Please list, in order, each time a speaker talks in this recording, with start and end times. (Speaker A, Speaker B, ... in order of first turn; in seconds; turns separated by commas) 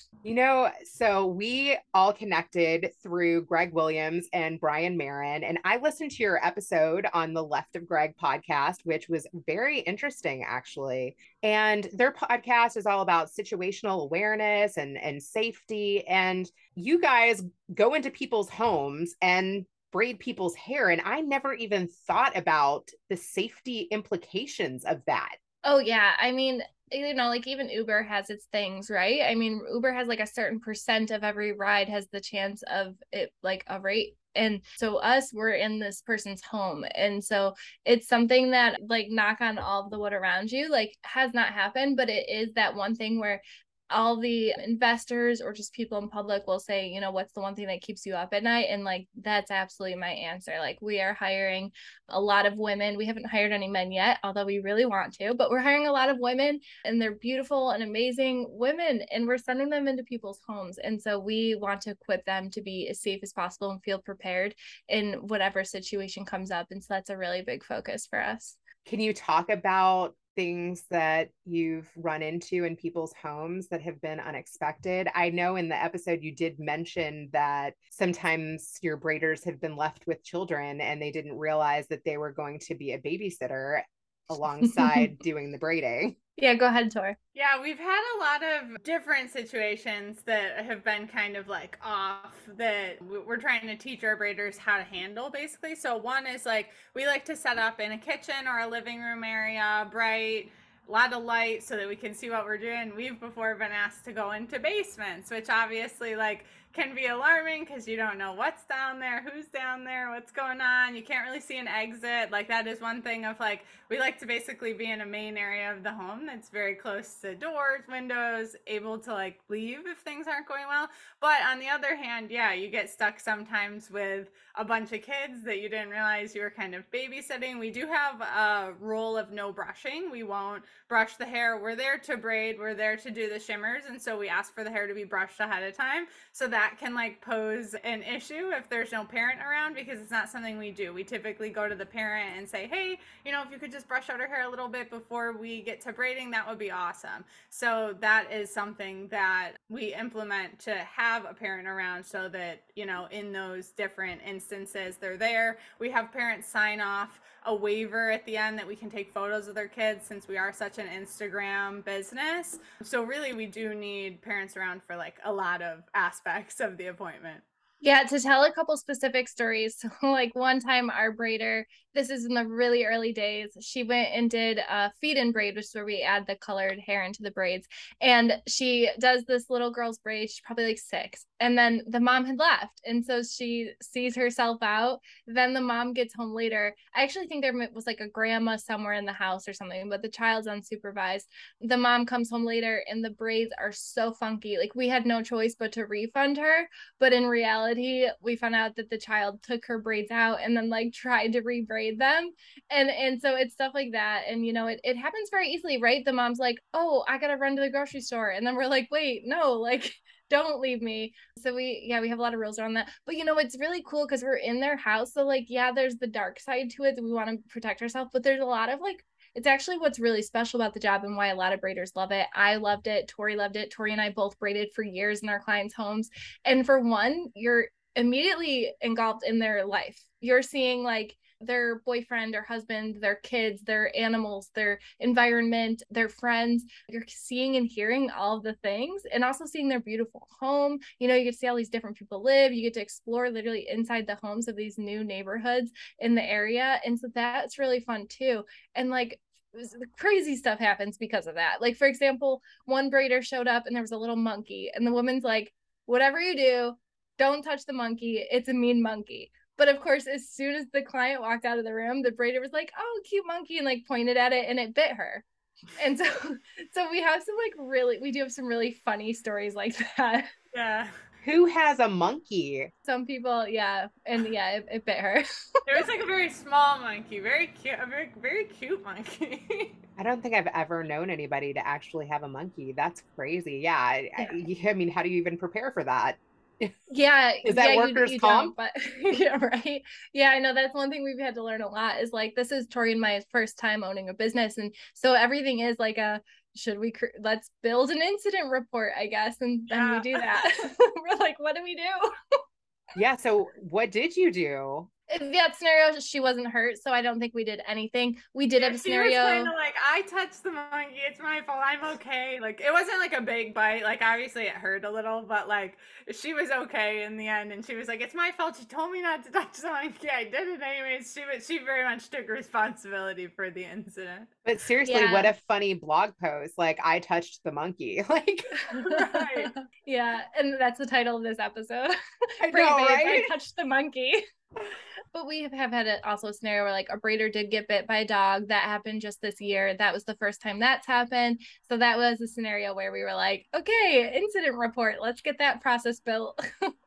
Speaker A: 0.2-25.4, Speaker B: 25.6-68.6, Speaker A: 68.8-86.2, Speaker B: 84.6-85.1, Speaker B: 86.4-87.2, Speaker C: 87.3-167.4, Speaker B: 167.8-265.2, Speaker B: 265.8-270.3, Speaker C: 270.5-270.9, Speaker A: 271.2-272.7, Speaker B: 272.8-275.8, Speaker C: 275.7-279.8, Speaker A: 280.0-286.8, Speaker B: 284.2-284.4, Speaker B: 286.9-302.1, Speaker A: 287.4-288.5, Speaker C: 299.7-300.4, Speaker A: 302.9-304.9, Speaker B: 305.1-309.5, Speaker C: 308.6-324.3, Speaker A: 324.4-328.5, Speaker B: 324.8-325.3, Speaker B: 328.6-331.9, Speaker C: 328.8-329.5, Speaker A: 332.4-333.3, Speaker B: 332.5-334.2, Speaker B: 335.1-346.4